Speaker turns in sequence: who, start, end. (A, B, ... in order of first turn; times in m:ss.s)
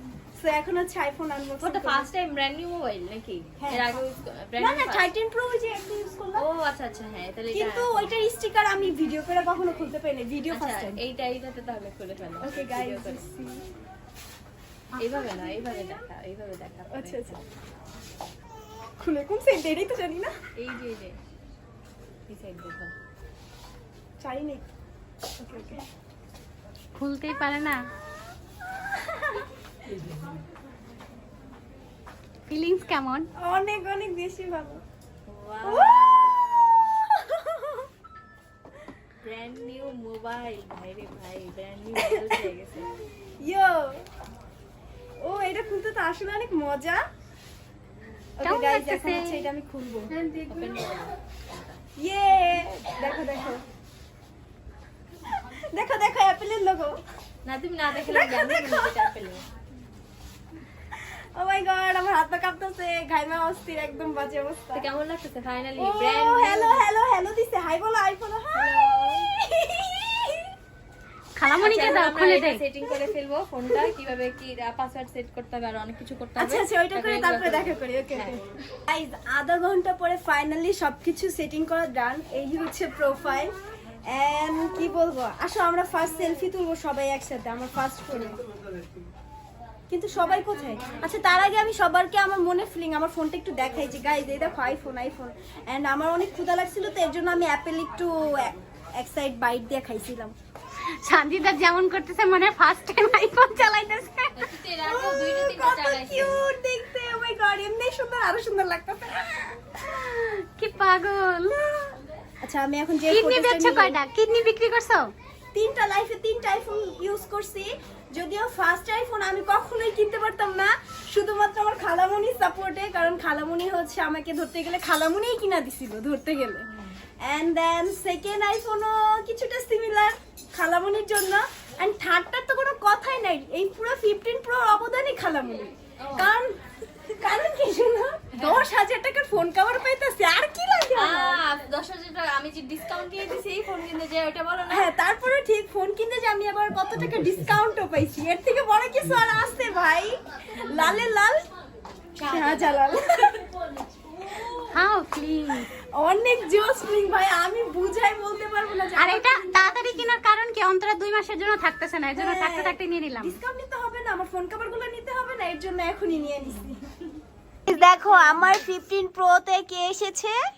0:00.4-0:02.1 A
0:01.6-0:05.1 B
0:03.6-0:04.0 A
0:04.6-0:06.4 A
0:06.3-0:08.1 B
0:07.5-0:11.0 A
0:10.5-0:13.2 B
0:12.4-0:13.6 A
0:14.9-0:16.0 A
0:15.0-0:17.4 B
0:16.9-0:17.4 A
0:19.0-0:20.3 A
0:20.6-0:21.2 B
0:22.3-0:22.9 B
0:24.2-0:24.6 A
0:25.4-0:25.8 A
0:26.9-0:27.8 C
0:28.7-0:29.4 A
0:32.5-0:33.3 C
0:33.4-0:34.8 A
0:35.3-0:37.0 B
0:35.6-0:36.1 A
0:37.1-0:37.8 A
0:39.2-0:42.9 B
0:43.4-0:44.0 A
0:45.2-0:47.0 A
0:48.4-0:50.1 A
0:48.4-0:49.4 C
0:50.2-0:51.8 B
0:52.0-0:53.6 A
0:55.3-0:57.0 A
0:57.4-0:59.4 B
0:58.0-0:59.1 A
1:00.9-1:04.8 A
1:04.7-1:06.8 B
1:05.8-1:10.5 A
1:08.6-1:08.9 B
1:11.4-1:12.6 C
1:11.6-1:18.3 B
1:11.6-1:12.1 A
1:16.4-1:23.5 A
1:24.1-1:28.4 A
1:29.9-1:40.3 A
1:41.0-1:44.5 C
1:44.3-1:46.4 B
1:44.8-1:49.7 A
1:49.9-1:52.0 C
1:52.4-1:54.0 A
1:53.1-1:55.1 C
1:55.5-2:06.6 A
2:07.2-2:16.5 A
2:16.0-2:16.3 B
2:17.1-2:21.4 A
2:21.0-2:24.9 B
2:24.7-2:31.5 A
2:32.2-2:33.0 B
2:32.2-2:33.4 A
2:34.7-2:35.7 C
2:35.9-2:40.1 A
2:39.0-2:43.4 C
2:42.1-2:46.9 A
2:47.6-2:50.3 A